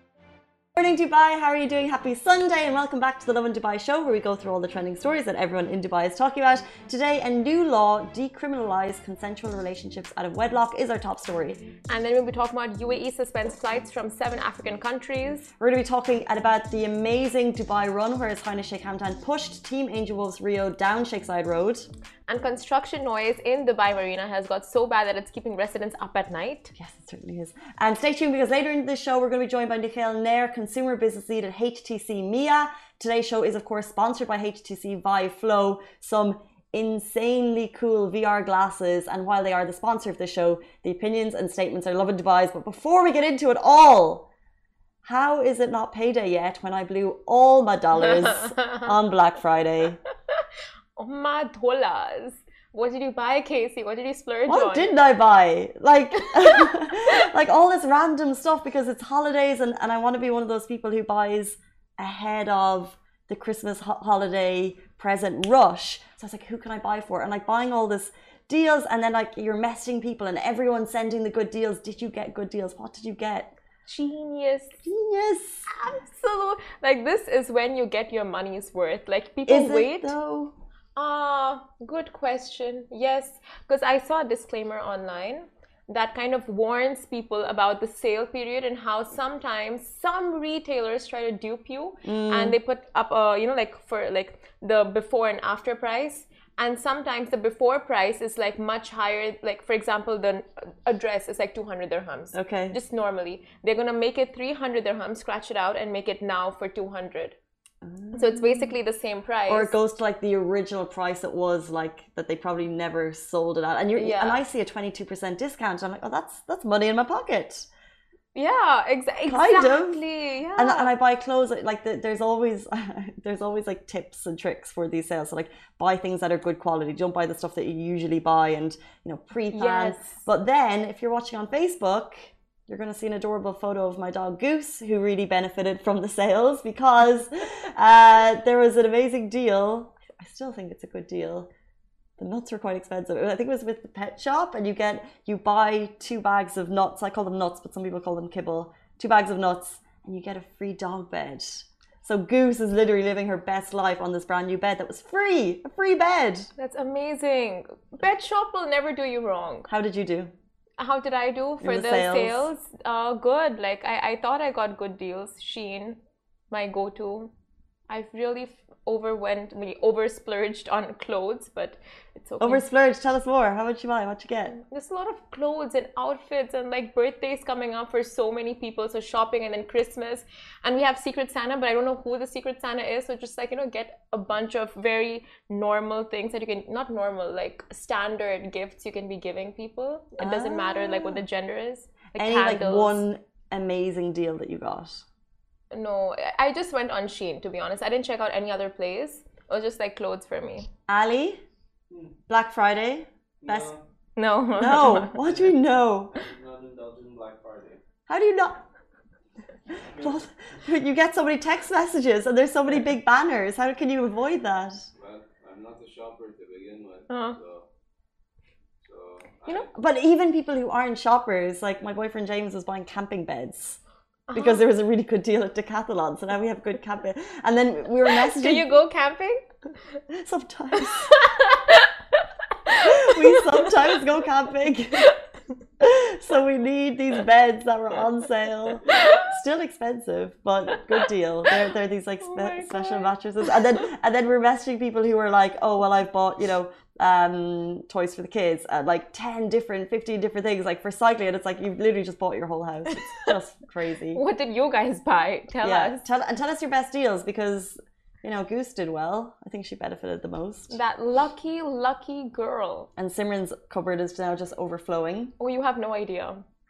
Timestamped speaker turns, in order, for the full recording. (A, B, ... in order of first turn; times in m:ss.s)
0:00.8-0:11.6 A
0:11.9-0:15.5 B
0:15.6-0:21.9 A
0:22.3-0:26.7 B
0:26.8-0:44.3 A
0:45.0-0:50.0 A
0:51.0-0:54.9 B
0:54.5-1:13.6 A
1:13.9-1:14.8 B
1:14.8-1:15.7 A
1:15.7-1:20.2 B
1:19.5-1:20.6 A
1:21.0-1:47.4 B
1:32.0-1:32.6 A
1:42.3-1:42.8 A
1:47.8-1:48.7 A
1:48.1-1:49.7 B
1:49.5-1:57.7 A
1:54.0-1:54.4 B
1:58.4-2:00.9 B
1:59.3-2:00.0 A
2:00.6-2:21.5 A
2:09.5-2:10.2 B
2:22.2-2:36.5 A
2:36.6-2:39.7 B
2:39.7-2:40.3 A
2:40.8-2:46.0 B
2:41.6-2:42.5 A
2:46.5-2:47.3 B
2:47.9-2:52.6 B
2:52.4-2:54.6 A
2:54.6-3:13.0 B
3:10.2-3:11.2 A
3:12.2-3:15.0 A
3:15.7-3:20.7 B
3:20.9-3:21.4 A
3:22.3-3:23.7 A
3:23.4-3:23.8 C
3:24.2-3:25.1 B
3:24.6-3:26.2 A
3:25.2-3:25.5 C
3:26.1-3:27.8 C
3:28.1-3:28.6 A
3:30.0-3:30.2 C
3:30.0-3:34.9 A
3:35.0-3:37.7 C
3:37.1-3:37.4 B
3:38.8-3:39.7 C
3:39.5-3:43.8 A
3:44.3-3:44.6 B
3:44.3-3:48.7 A
3:48.1-3:49.4 B
3:50.1-3:51.2 A
3:51.1-3:51.9 B
3:52.7-3:53.3 B
3:52.8-3:55.1 A
3:55.8-4:14.2 A
3:58.9-3:59.2 C
4:02.2-4:03.1 B
4:14.1-4:16.0 B
4:15.6-4:20.8 A
4:20.7-4:22.9 B
4:23.0-4:25.3 A
4:25.4-4:26.4 B